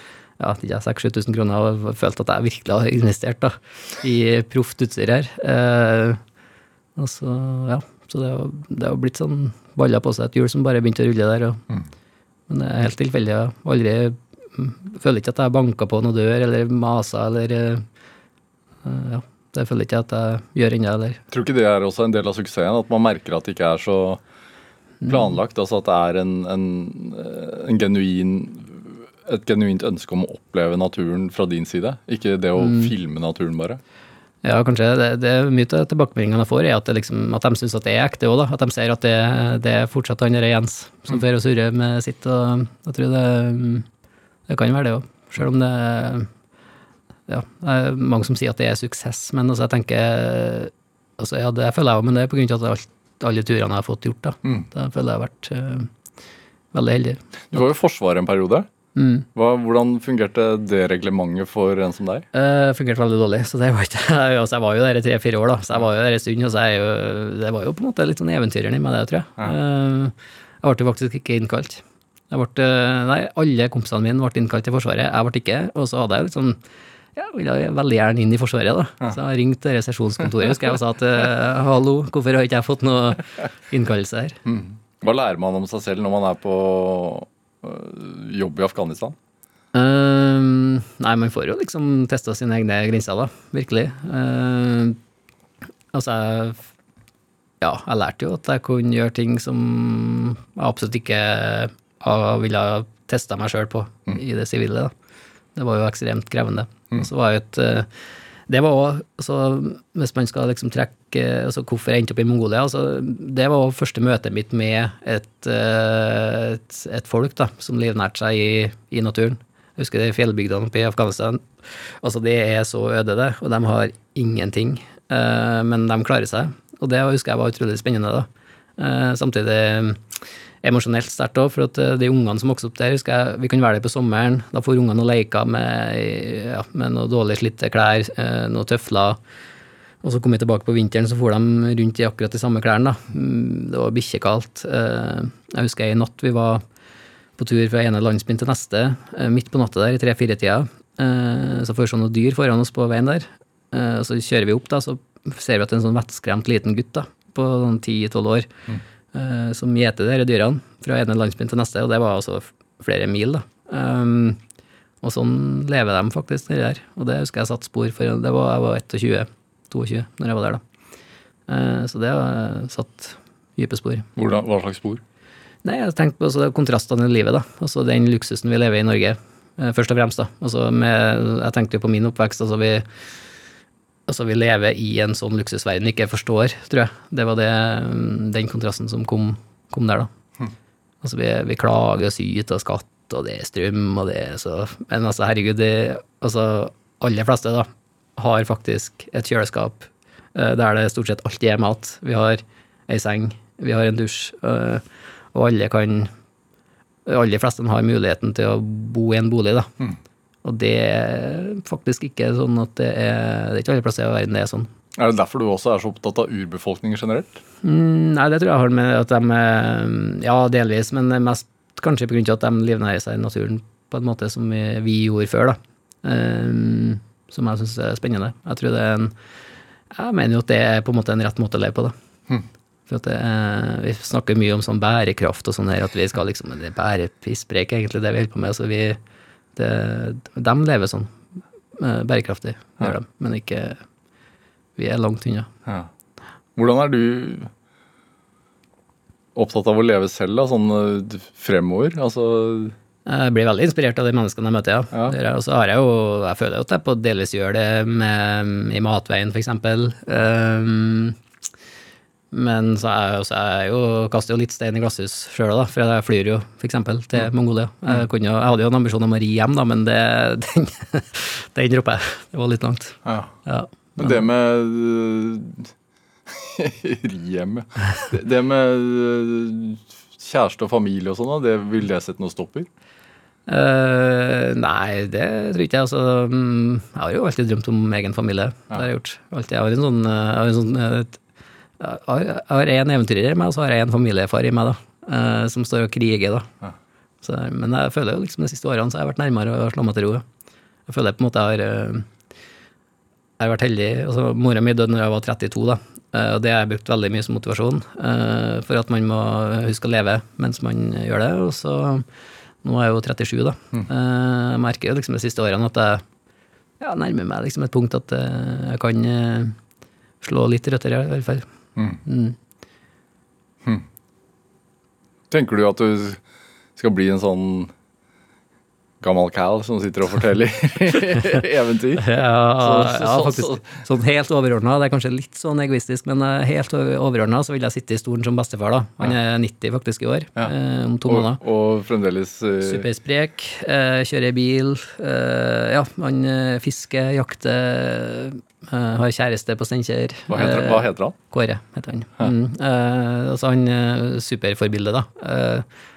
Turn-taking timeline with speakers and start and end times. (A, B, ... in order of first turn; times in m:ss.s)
0:00.4-0:06.2 A
0:07.0-0:11.6 A
0:12.5-0:17.8 A
0:18.8-0:21.2 A
0:21.3-0:24.2 B
0:25.0-0:25.3 A
0:25.0-0:33.8 B
0:32.6-0:32.9 A
0:34.4-0:43.9 A
0:44.5-0:46.3 A
0:47.3-0:55.9 A
0:56.7-0:57.6 A
0:57.5-0:58.7 B
0:59.0-0:59.3 A
0:59.3-1:02.3 B
1:02.3-1:16.6 A
1:17.2-1:24.4 A
1:24.4-1:29.2 B
1:29.7-1:35.0 A
1:35.9-1:36.6 A
1:37.6-1:44.9 A
1:45.6-1:47.9 A
1:48.5-2:01.4 A
2:02.0-2:08.3 A
2:08.8-2:10.0 A
2:10.6-2:19.2 A
2:20.0-2:26.6 A
2:27.4-2:38.5 A
2:39.1-2:44.4 A
2:45.0-2:50.6 A
2:51.5-2:54.1 A
2:54.2-2:55.0 B
2:55.6-3:02.8 A
3:04.1-3:10.1 A
3:11.0-3:24.8 A
3:25.3-3:26.1 A
3:27.0-3:29.7 A
3:30.4-3:34.7 A
3:35.0-3:37.4 B
3:37.6-3:49.1 A
3:49.9-3:51.9 A
3:52.9-3:59.0 A
3:59.6-4:01.1 A
4:01.8-4:03.8 A
4:04.8-4:05.5 A
4:06.6-4:07.5 B
4:09.3-4:12.7 B
4:13.0-4:21.2 A
4:22.3-4:34.2 A
4:33.0-4:33.3 B
4:34.0-4:35.7 B
4:36.3-4:42.7 B
4:43.5-4:51.2 A
4:51.8-4:56.5 A
4:57.2-5:00.2 A
5:00.9-5:02.1 A
5:03.4-5:12.0 A
5:12.6-5:16.0 A
5:16.8-5:19.6 A
5:20.2-5:21.4 A
5:21.8-5:22.0 B
5:22.0-5:22.4 A
5:25.3-5:26.2 B
5:26.8-5:27.7 B
5:29.0-5:32.0 B
5:32.0-5:41.4 A
5:32.6-5:33.7 B
5:41.0-5:42.9 B
5:42.6-5:55.6 A
5:50.3-5:51.2 B